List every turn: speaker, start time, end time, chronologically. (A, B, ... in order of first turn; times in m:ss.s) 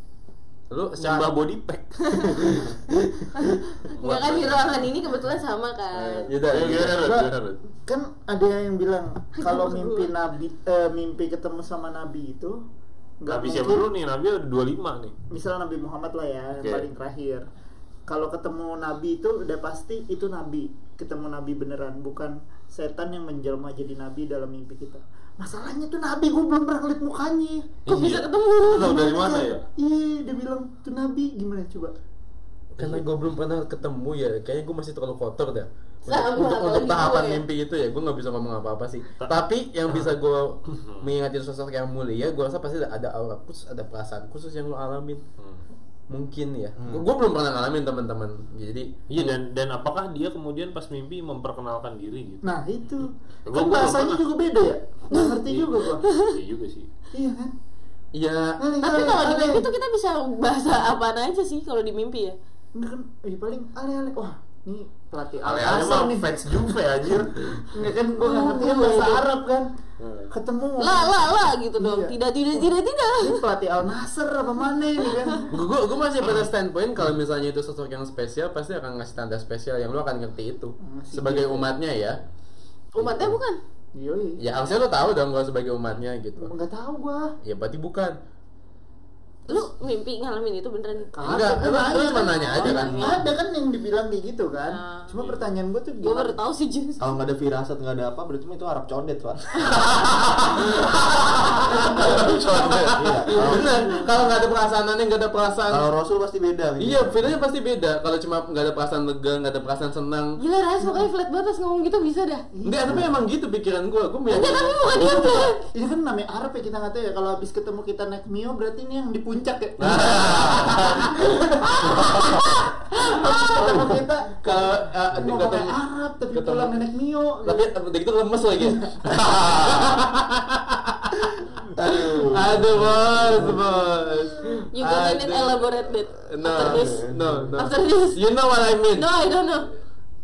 0:00.7-0:01.4 A
0:01.0-0:02.7 B
0:02.0-0:02.5 C
0:02.4-0:03.2 A
0:03.3-0:06.3 C
0:04.0-0:04.8 A
0:04.2-0:04.5 B
0:06.0-0:07.0 A
0:06.4-0:07.6 B
0:06.9-0:12.6 D
0:09.4-0:10.1 C
0:13.2-0:13.8 D
0:13.3-0:15.1 B
0:15.3-0:17.4 D
0:16.6-0:16.9 B
0:18.1-0:27.8 D
0:27.8-0:29.1 C
0:27.8-0:29.6 B
0:27.9-0:28.2 A
0:28.7-0:31.9 D
0:32.8-0:45.2 A
0:36.1-0:37.4 C
0:46.1-0:49.4 A
0:46.8-0:47.0 E
0:49.1-0:52.4 B
0:52.4-0:56.0 D
0:53.5-0:54.2 B
0:55.4-0:56.9 B
0:57.1-0:57.5 D
0:58.1-0:58.6 A
0:58.6-0:59.7 D
0:58.8-1:02.4 C
1:02.7-1:06.7 D
1:05.4-1:07.7 B
1:07.7-1:09.7 D
1:08.2-1:09.2 C
1:10.0-1:10.3 B
1:10.3-1:11.1 D
1:10.8-1:13.4 C
1:11.8-1:15.5 D
1:15.5-1:22.2 A
1:20.8-1:21.7 D
1:22.9-1:23.6 C
1:23.0-1:23.4 A
1:23.9-1:24.4 D
1:24.4-1:26.5 A
1:26.4-1:27.4 D
1:27.4-1:28.2 A
1:29.5-1:33.2 C
1:31.1-1:36.4 D
1:31.2-1:33.3 A
1:34.7-1:35.4 C
1:36.0-1:37.1 C
1:37.0-1:39.4 E
1:39.9-1:43.5 B
1:41.9-1:45.9 A
1:42.0-1:43.7 E
1:43.4-1:44.2 D
1:45.7-1:47.3 E
1:46.8-1:50.4 A
1:50.4-1:52.4 C
1:50.8-1:51.0 D
1:52.6-1:53.2 D
1:52.6-1:55.5 A
1:54.3-1:55.6 C
1:55.7-2:07.7 D
1:59.9-2:01.0 B
2:00.0-2:01.2 A
2:03.2-2:03.9 A
2:04.4-2:05.8 A
2:06.3-2:06.8 A
2:07.4-2:19.1 A
2:09.2-2:09.8 B
2:11.8-2:12.6 E
2:12.5-2:13.2 B
2:14.7-2:18.2 C
2:16.5-2:17.5 E
2:18.9-2:19.7 C